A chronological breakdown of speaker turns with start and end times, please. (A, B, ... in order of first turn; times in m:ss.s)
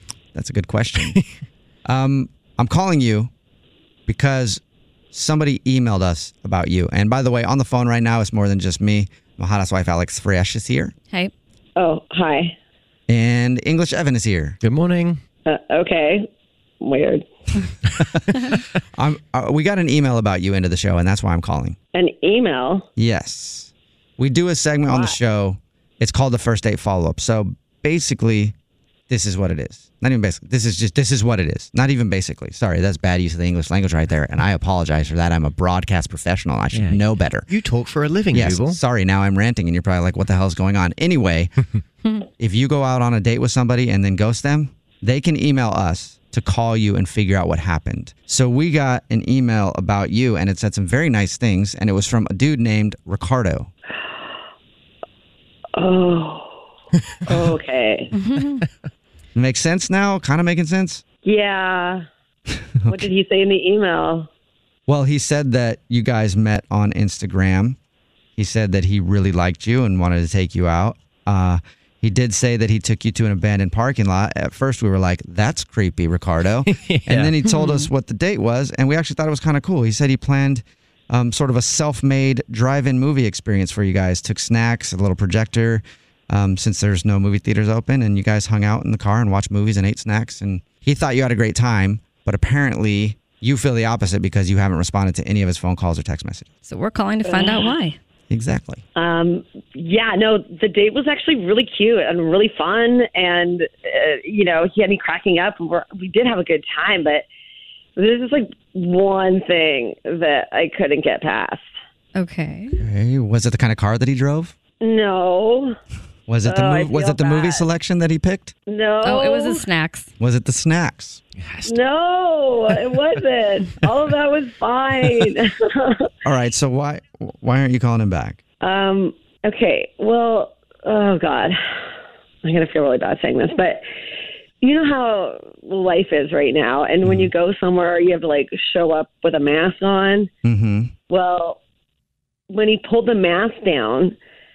0:00.3-0:01.2 A
0:01.9-0:03.3 A
0:04.1-0:04.6 A
0:05.1-0:10.9 A
0:11.8-0:12.5 B
0:13.1-0:14.6 A
0:14.6-0:15.2 C
0:15.4-0:16.2 B
0:16.8-0:17.2 B
0:18.0-0:18.4 A
0:18.9-0:21.8 A
0:21.9-0:22.8 B
0:23.0-0:28.5 A
0:24.9-0:25.2 B
0:29.1-0:37.5 A
0:36.7-0:38.8 C
0:38.3-0:41.5 A
0:42.4-0:53.7 A
0:55.8-0:56.6 B
0:57.2-0:58.1 B
0:58.1-0:58.6 D
0:59.3-1:01.0 A
1:01.2-1:02.0 B
1:02.8-1:03.1 A
1:02.9-1:04.3 B
1:04.9-1:07.8 A
1:08.4-1:36.5 A
1:16.7-1:17.3 C
1:17.5-1:17.9 D
1:36.6-1:38.0 D
1:37.2-1:37.7 B
1:38.3-1:38.8 A
1:38.9-1:47.2 B
1:48.0-1:51.6 B
1:52.1-1:52.8 D
1:52.8-1:54.5 A
1:54.8-1:55.8 B
1:56.3-1:58.5 A
1:56.4-1:57.6 B
1:58.7-1:59.6 B
1:59.0-2:00.1 D
2:00.2-2:01.2 A
2:01.4-2:01.8 C
2:01.6-2:06.0 B
2:06.2-2:08.4 A
2:08.6-2:11.6 B
2:12.4-2:13.8 B
2:14.6-2:20.3 B
2:20.4-2:20.9 A
2:21.1-2:21.6 B
2:22.5-2:24.1 B